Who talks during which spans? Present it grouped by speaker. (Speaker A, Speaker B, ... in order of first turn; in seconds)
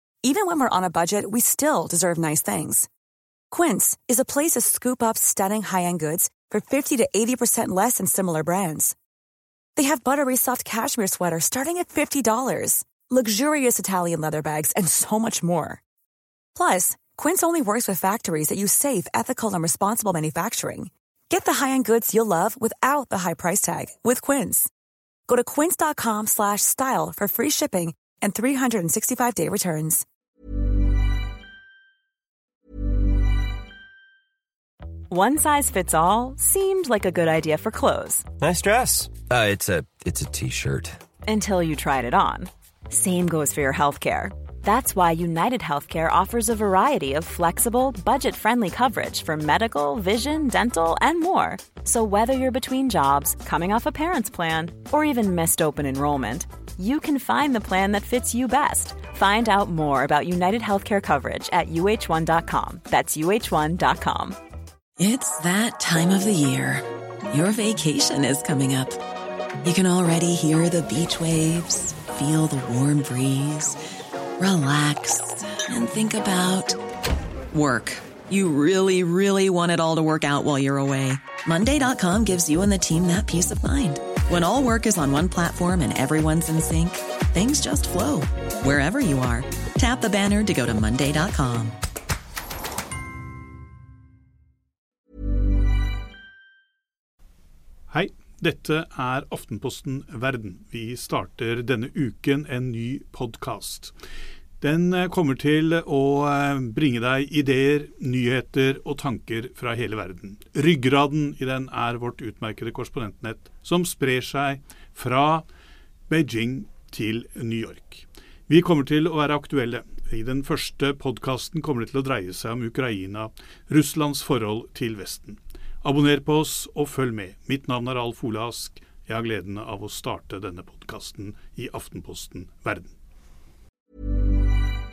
Speaker A: 0.2-2.9, 3.5-8.9, 9.8-15.8, 16.5-24.7, 25.3-30.0
Speaker B: 35.1-38.2, 41.3-64.4
Speaker C: 38.4-41.0
Speaker D: 65.0-69.0, 69.6-73.8, 74.4-76.8, 77.5-91.8
Speaker E: 97.9-103.9, 104.6-115.4, 116.1-132.9